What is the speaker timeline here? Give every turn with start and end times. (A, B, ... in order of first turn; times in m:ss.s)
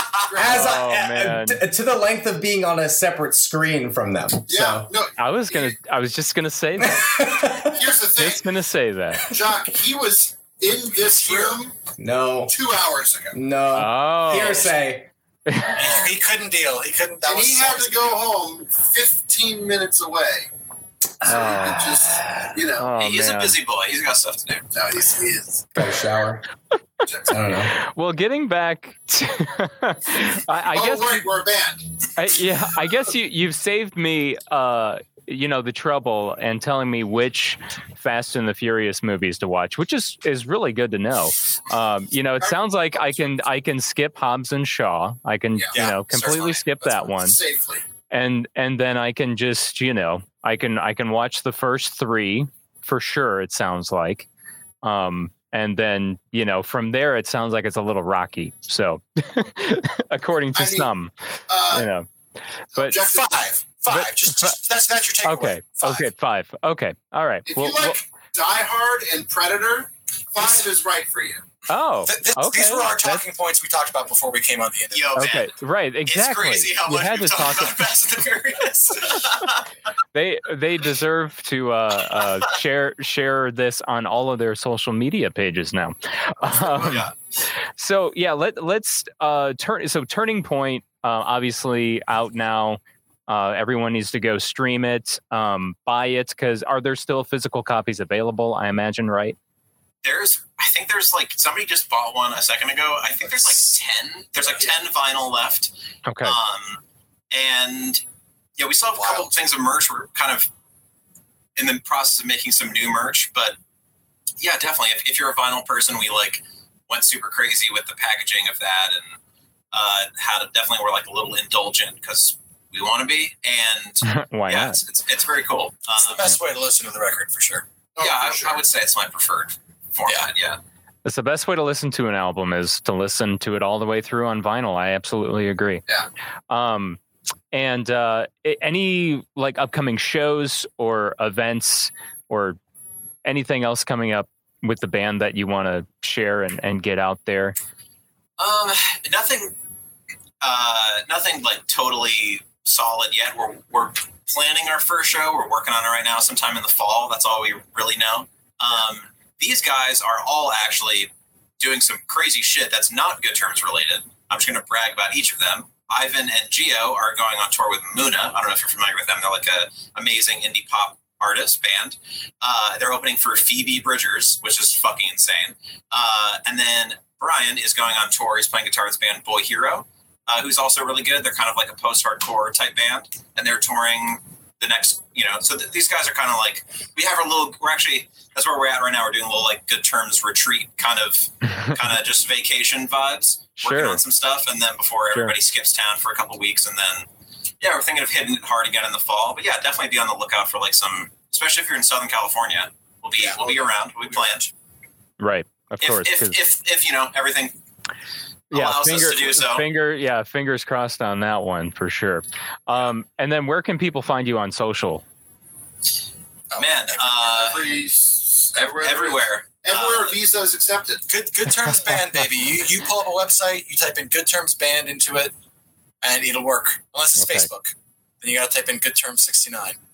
0:00.3-0:00.8 A
0:00.3-0:04.9 B
0:00.4-0:01.6 C
0:04.5-0:05.8 A
0:05.2-0:07.1 C
0:06.8-0:07.9 B
0:07.6-0:08.5 A
0:08.2-0:09.2 C
0:09.2-0:11.8 A
0:11.1-0:11.6 D
0:12.0-0:12.5 B
0:12.5-0:13.4 A
0:13.3-0:15.1 B
0:13.8-0:14.7 C
0:15.5-0:16.0 C
0:15.8-0:18.2 D
0:17.2-0:20.5 A
0:21.2-0:22.2 B
0:21.2-0:22.9 A
0:21.3-0:22.0 C
0:22.7-0:23.6 C
0:23.0-0:24.7 E
0:24.7-0:25.7 A
0:25.8-0:26.4 B
0:27.0-0:27.4 A
0:27.3-0:27.7 B
0:27.6-0:31.3 C
0:30.7-0:31.9 A
0:32.2-0:47.4 C
0:42.4-0:43.4 A
0:45.7-0:46.6 D
0:45.8-0:47.8 A
0:48.1-0:54.3 C
0:54.8-1:01.1 C
1:00.5-1:00.9 A
1:01.5-1:01.9 A
1:01.7-1:02.1 C
1:02.8-1:03.5 A
1:02.9-1:06.1 D
1:03.9-1:04.6 C
1:05.2-1:08.0 C
1:07.5-1:11.4 A
1:11.7-1:13.2 C
1:12.0-1:15.3 D
1:14.9-1:15.5 E
1:15.2-1:17.8 C
1:16.1-1:19.6 E
1:20.1-1:27.1 C
1:26.4-1:27.2 E
1:27.8-1:39.4 C
1:40.0-1:45.7 E
1:46.1-1:46.4 C
1:46.2-1:46.8 E
1:47.3-1:48.0 E
1:48.6-1:50.5 E
1:49.0-1:49.3 D
1:51.6-1:53.6 E
1:54.4-1:59.2 E
1:59.7-2:06.4 E
2:04.0-2:04.8 C
2:06.0-2:07.7 D
2:08.0-2:08.7 A
2:08.0-2:10.6 E
2:11.0-2:15.8 C
2:16.5-2:17.0 C
2:17.5-2:22.6 C
2:23.2-2:27.6 C
2:28.4-2:29.6 E
2:30.4-3:17.1 E
3:13.6-3:14.0 C
3:17.6-3:24.5 E
3:23.2-3:23.5 D
3:25.2-3:26.4 C
3:25.8-3:27.6 E
3:28.5-3:29.6 E
3:28.5-3:35.0 C
3:36.5-3:36.8 D
3:36.6-3:37.7 E
3:37.2-3:41.1 A
3:38.6-3:40.2 E
3:41.1-3:45.3 D
3:46.0-3:49.8 D
3:47.2-3:47.5 C